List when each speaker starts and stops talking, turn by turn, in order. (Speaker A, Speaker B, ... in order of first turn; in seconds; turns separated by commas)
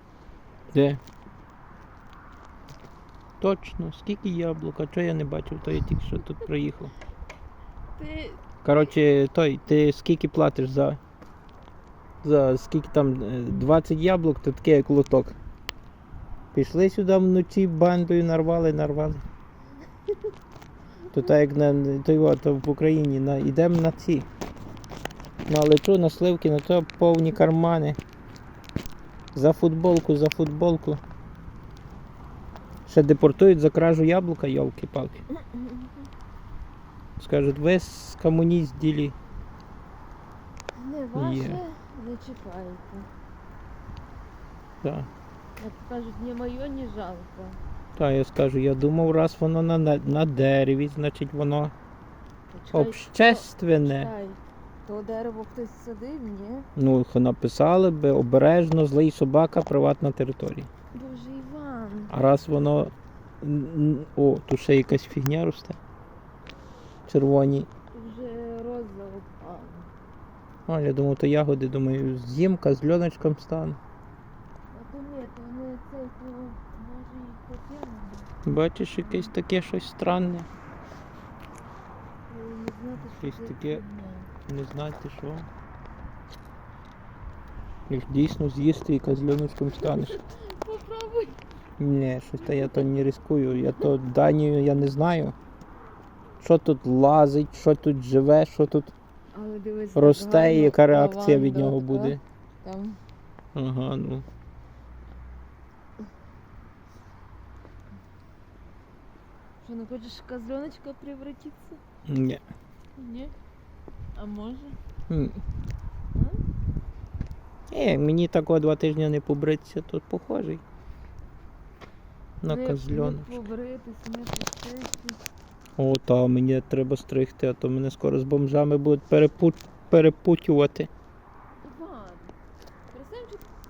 Speaker A: 0.7-1.0, Speaker A: 3.4-6.9, Speaker B: 8.0-8.4, Speaker A: 8.6-11.0, Speaker A: 12.2-15.3, Speaker A: 16.5-19.2, Speaker A: 21.1-24.3, Speaker A: 25.4-28.0, Speaker A: 29.3-31.0, Speaker A: 32.9-35.2, Speaker B: 35.4-35.9, Speaker A: 37.2-39.1, Speaker B: 40.8-43.1, Speaker A: 41.1-41.6, Speaker A: 44.8-45.1, Speaker B: 45.6-47.6, Speaker A: 48.0-51.7, Speaker B: 52.5-56.7, Speaker A: 52.7-54.1, Speaker A: 56.8-60.7, Speaker B: 60.9-62.1, Speaker A: 62.1-65.8, Speaker A: 67.1-67.7, Speaker B: 67.9-69.9, Speaker A: 70.7-73.8, Speaker B: 74.7-78.3, Speaker A: 78.4-80.5, Speaker B: 79.0-79.3, Speaker B: 82.3-84.3, Speaker A: 83.0-83.8, Speaker A: 84.5-85.5, Speaker A: 87.9-90.2, Speaker B: 89.7-91.4, Speaker A: 91.8-95.3, Speaker B: 92.4-92.8, Speaker B: 93.6-93.9, Speaker A: 96.4-98.9, Speaker B: 99.3-103.0, Speaker A: 99.9-102.2, Speaker A: 103.5-104.2, Speaker B: 109.6-111.8, Speaker A: 112.0-112.4, Speaker B: 113.0-113.3, Speaker B: 114.1-114.8, Speaker A: 115.1-115.4, Speaker B: 116.1-116.4, Speaker A: 117.7-120.6, Speaker A: 122.4-123.3, Speaker B: 122.5-125.2, Speaker A: 125.8-130.9, Speaker B: 131.6-132.3, Speaker B: 132.9-133.4